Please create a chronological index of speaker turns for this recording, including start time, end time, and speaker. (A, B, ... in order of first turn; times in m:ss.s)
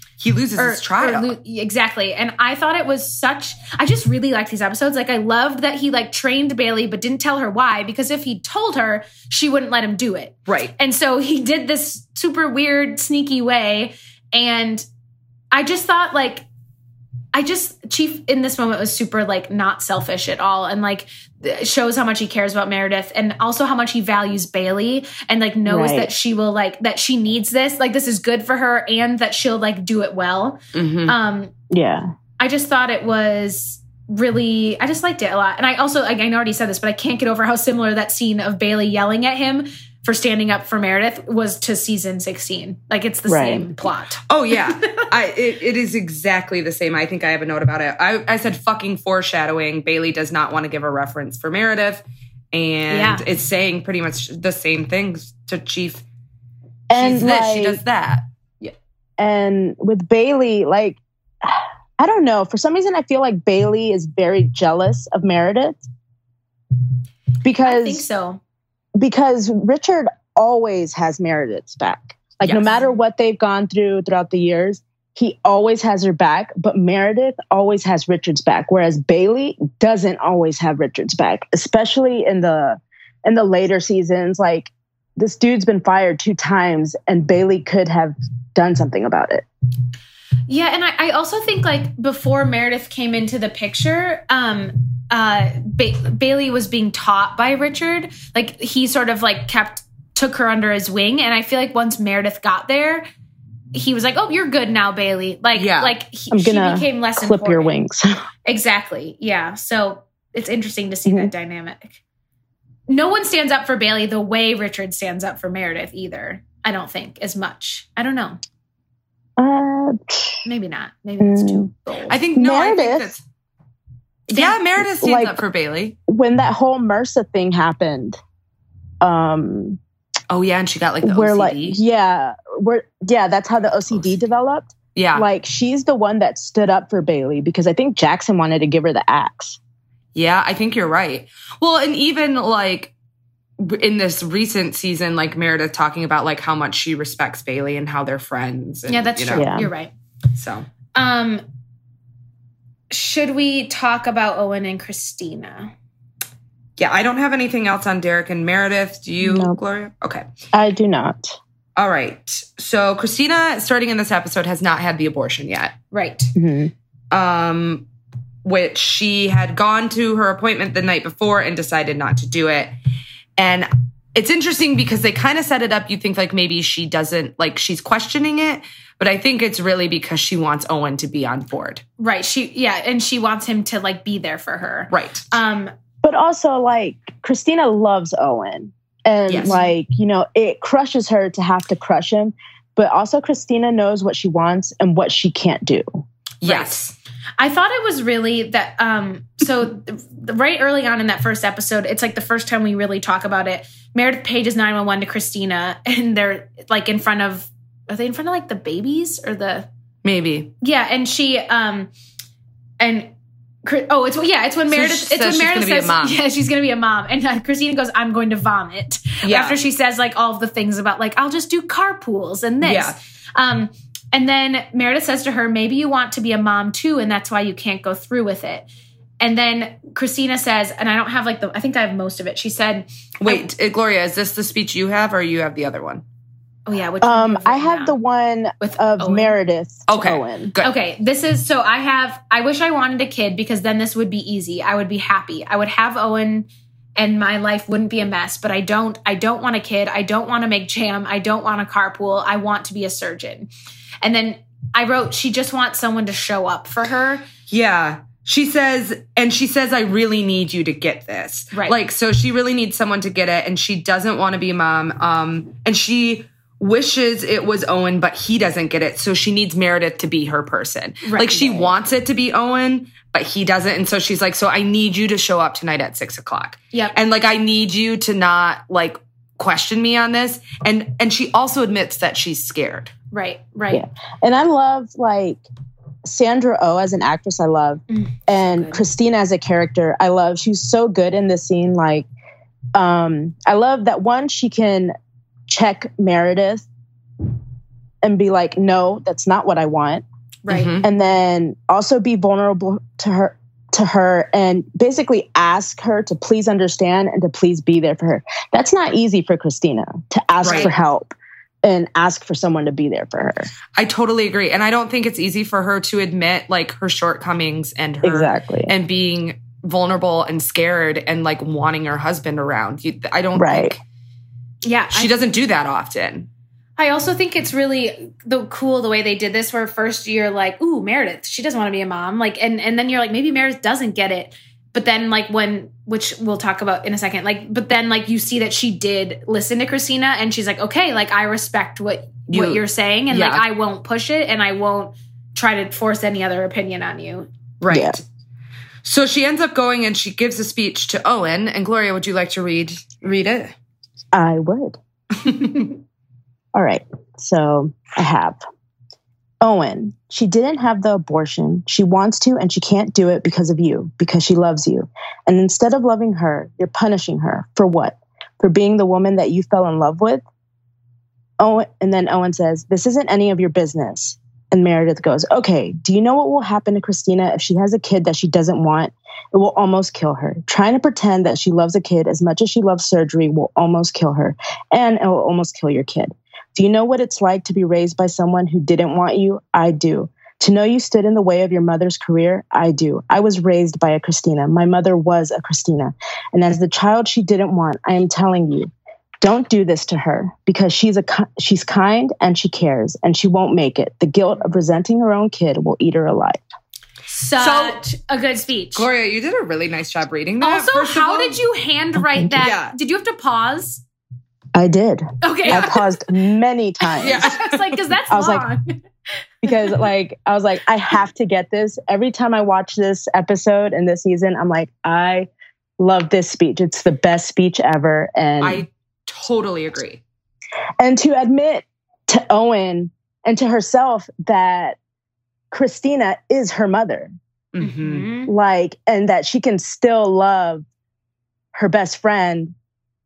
0:00.2-0:01.3 A
0:00.6-0:14.8 B
0:10.5-0:10.7 A
0:15.5-0:16.4 B
0:17.3-0:31.5 B
0:25.6-0:26.1 C
0:30.7-0:31.1 A
0:31.7-0:32.1 C
0:32.4-0:45.0 B
0:43.3-0:43.7 C
0:44.3-0:56.0 A
0:52.9-0:53.2 B
0:56.9-0:57.8 C
0:56.9-0:58.7 A
0:59.2-1:05.8 C
1:07.4-1:08.0 C
1:07.6-1:08.4 B
1:09.0-1:29.4 C
1:12.4-1:12.8 A
1:30.5-1:43.1 B
1:43.7-1:47.7 B
1:45.5-1:45.9 A
1:46.3-1:48.0 C
1:48.4-1:52.0 B
1:51.1-1:51.3 C
1:52.9-1:58.4 B
1:59.4-2:00.4 C
2:00.4-2:02.2 B
2:01.2-2:01.7 C
2:02.1-2:03.2 A
2:02.3-2:03.1 C
2:04.3-2:05.9 A
2:04.8-2:05.4 C
2:06.1-2:08.2 C
2:09.0-2:09.8 C
2:10.3-2:11.8 A
2:11.0-2:19.6 C
2:15.0-2:15.3 A
2:20.1-2:22.9 A
2:23.6-2:29.5 A
2:28.9-2:29.9 B
2:29.4-2:29.7 C
2:30.3-2:30.7 A
2:30.9-2:31.4 B
2:32.9-2:35.7 B
2:36.8-2:40.2 A
2:39.2-2:39.6 C
2:40.5-2:41.4 C
2:41.8-2:45.8 A
2:45.9-2:46.3 B
2:46.4-2:46.7 C
2:47.1-2:47.8 A
2:48.4-2:52.7 A
2:53.4-3:01.8 A
3:02.0-3:05.7 B
3:04.9-3:05.2 A
3:06.0-3:16.0 C
3:09.3-3:09.6 A
3:09.4-3:09.7 B
3:16.4-3:16.9 A
3:16.4-3:16.8 B
3:17.4-3:29.7 B
3:30.0-3:30.5 A
3:30.6-3:31.9 B
3:32.8-3:33.1 B
3:33.6-3:48.7 B
3:34.7-3:36.2 A
3:39.2-3:39.6 A
3:42.6-3:43.0 A
3:49.2-3:53.4 B
3:53.2-3:56.0 A
3:56.7-3:57.9 B
3:57.0-4:00.5 C
3:58.6-3:59.3 B
3:59.9-4:00.7 A
4:00.6-4:13.5 B
4:14.0-4:17.2 B
4:17.5-4:42.9 A
4:31.0-4:31.7 B
4:43.1-4:43.8 B
4:43.7-4:45.4 C
4:46.0-4:52.1 C
4:47.9-4:48.8 B
4:52.7-4:54.9 C
4:55.5-4:56.6 C
4:58.0-5:00.0 C
5:00.4-5:00.8 B
5:00.5-5:00.9 A
5:00.8-5:13.5 C
5:10.4-5:10.7 A
5:10.4-5:10.7 B
5:13.8-5:23.8 A
5:18.0-5:18.7 C
5:23.3-5:23.8 C
5:24.6-5:25.1 B
5:24.9-5:26.3 A
5:26.8-5:47.3 B
5:42.3-5:43.4 A
5:47.6-5:48.0 A
5:47.7-5:48.0 C
5:48.8-5:53.5 A
5:54.1-5:54.8 C
5:56.5-5:58.4 C
5:59.4-6:10.2 C
6:11.4-6:38.7 C
6:39.2-6:46.4 C
6:47.1-6:48.9 B
6:47.4-6:47.8 A
6:48.7-6:51.4 A
6:50.4-6:53.8 B
6:52.4-6:52.7 A
6:54.5-6:57.3 C
6:55.2-6:55.9 B
6:55.5-6:55.8 A
6:56.9-6:58.8 B
6:57.0-6:57.8 A
6:58.1-6:58.4 C
6:59.4-7:05.3 C
6:59.5-6:59.7 B
7:05.8-7:08.6 C
7:08.4-7:10.0 A
7:10.8-7:14.8 C
7:15.5-7:17.1 C
7:17.5-7:18.1 A
7:17.6-7:18.3 B
7:18.3-7:20.6 C
7:21.5-7:22.5 C